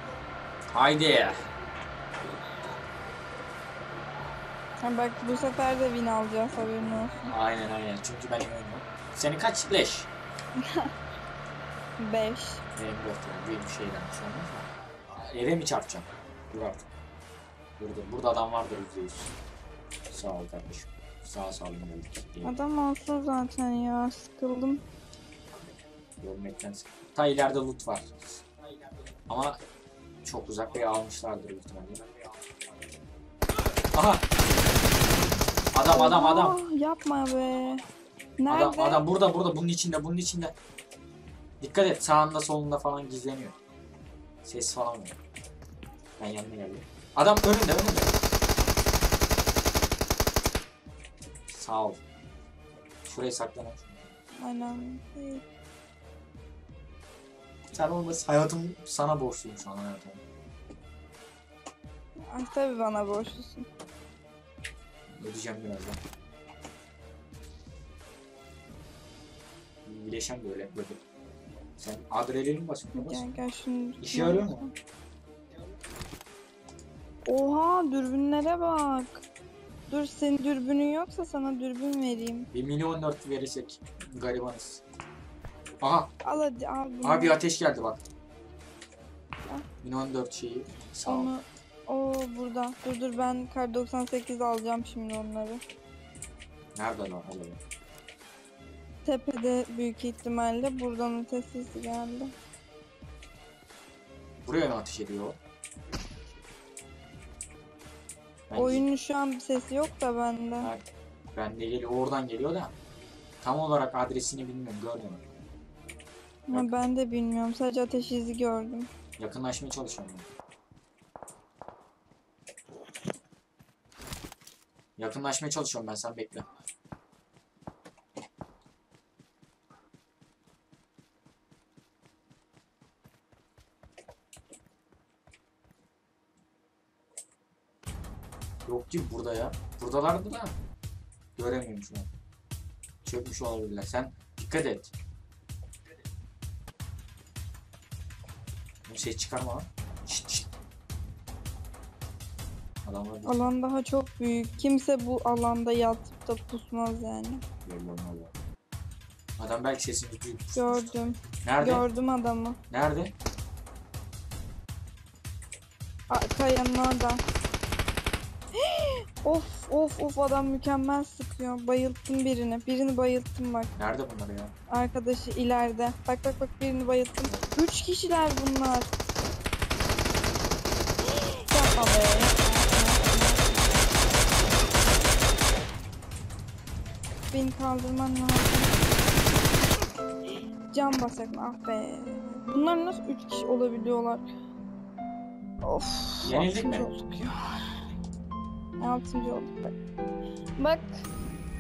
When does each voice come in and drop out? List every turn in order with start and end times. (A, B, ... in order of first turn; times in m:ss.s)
0:00.7-0:01.4 A
0:04.8-0:07.3 B
0:07.3-0:10.1 A
0:10.6-0:10.9 B
0:12.0-0:12.6 B
0:12.8-0:16.9 A
0:17.8-0:19.4 A
0:20.1-0:22.6 A
0:22.4-0:24.8 B
0:26.2-0:28.4 A
0:29.3-0:29.6 A
0:30.2-0:32.0 A
0:33.9-0:34.3 A
0:35.7-0:36.6 A
0:35.9-0:37.8 B
0:38.4-0:39.0 B
0:38.5-0:40.5 A
0:41.6-0:43.5 A
0:44.4-0:45.2 A
0:46.2-0:48.2 A
0:51.5-0:52.0 A
0:53.0-0:54.1 A
0:54.4-0:55.4 B
0:57.7-1:00.2 A
1:02.3-1:03.7 B
1:05.1-1:06.0 A
1:09.8-1:11.0 A
1:11.8-1:13.3 A
1:12.9-1:14.7 B
1:14.0-1:14.7 A
1:17.3-1:19.2 B
1:19.9-1:22.5 B
1:22.5-1:24.8 A
1:25.8-1:26.1 A
1:26.2-1:27.4 B
1:27.0-1:28.0 A
1:29.8-1:31.3 A
1:31.1-1:35.6 B
1:36.8-1:37.6 A
1:39.0-1:42.3 B
1:44.4-1:45.4 A
1:48.5-1:48.9 A
1:48.5-1:50.7 B
1:51.3-1:52.7 A
1:53.4-1:55.2 A
1:56.5-1:58.9 B
1:56.5-1:56.8 A
1:59.2-2:00.3 A
2:05.0-2:06.5 A
2:18.7-2:20.5 A
2:21.4-2:22.1 A
2:23.0-2:24.9 A
2:28.9-2:30.5 A
2:32.8-2:33.5 A
2:33.2-2:37.4 B
2:37.6-2:38.3 A
2:39.4-2:41.9 A
2:40.6-2:42.6 B
2:42.7-2:43.1 A
2:46.1-2:47.2 B
2:48.6-2:53.7 B
2:53.8-2:54.5 A
2:54.7-2:58.9 B
3:01.3-3:03.8 B
3:07.3-3:08.8 B
3:10.7-3:14.2 B
3:15.6-3:17.8 B
3:16.2-3:16.9 A
3:18.8-3:19.7 B
3:20.6-3:21.0 B